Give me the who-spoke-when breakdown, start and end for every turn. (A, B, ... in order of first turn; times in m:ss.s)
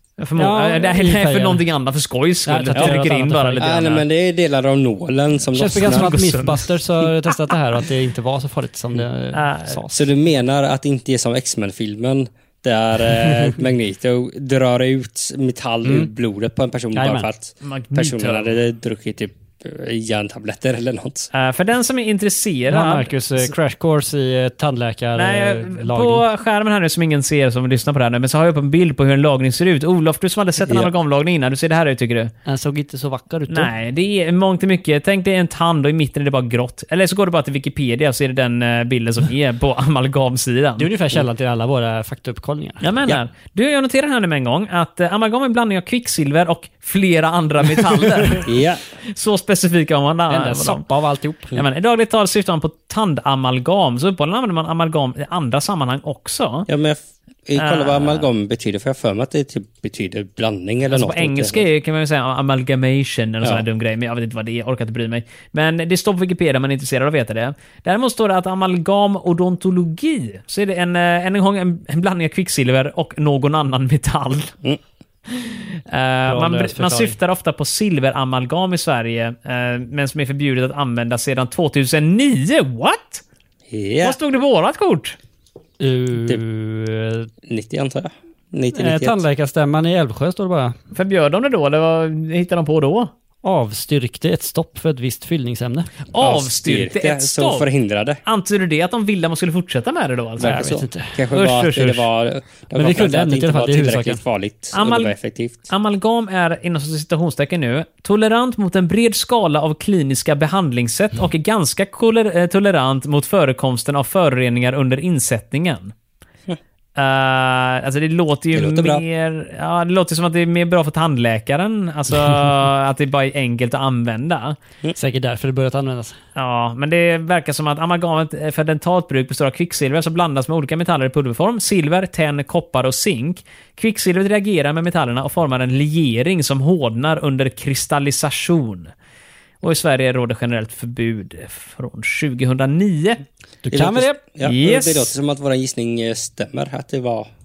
0:00.2-0:04.0 A
0:00.4-0:01.6 B
0:02.5-0:03.7 B
0:03.6-0:06.1 C
0:05.5-0:10.1 B
0:05.8-0:06.7 A
0:09.3-0:09.8 A
0:09.9-0:21.3 C
0:15.8-0:16.1 B
0:16.9-0:17.3 B
0:17.6-0:18.5 A
0:21.3-0:23.5 A
0:22.7-0:26.2 B
0:25.2-0:32.3 A
0:30.6-0:30.9 C
0:32.4-0:33.7 B
0:33.5-0:40.9 A
0:40.8-0:42.8 B
0:42.8-0:48.5 A
0:48.4-0:48.8 C
0:49.0-0:50.8 A
0:50.3-0:51.6 B
0:51.5-0:56.7 A
0:56.7-1:01.6 C
0:57.6-0:58.3 A
1:00.9-1:14.5 A
1:15.3-1:23.2 A
1:16.3-1:17.2 B
1:23.7-1:24.2 C
1:24.0-1:25.2 A
1:25.8-1:27.3 B
1:27.4-1:29.2 C
1:28.7-1:30.8 B
1:31.0-1:33.1 A
1:33.4-1:35.9 B
1:36.1-1:37.7 A
1:36.2-1:38.2 C
1:38.2-1:40.8 A
1:40.4-1:45.7 C
1:40.4-1:41.2 B
1:41.3-1:42.1 A
1:42.7-1:44.2 B
1:44.7-1:45.1 A
1:45.7-1:55.9 A
1:57.0-2:04.6 A
1:58.5-1:59.0 C
2:05.0-2:06.2 B
2:06.4-2:18.9 A
2:19.6-2:23.2 A
2:23.6-2:24.2 B
2:23.7-2:27.3 C
2:24.4-2:25.1 A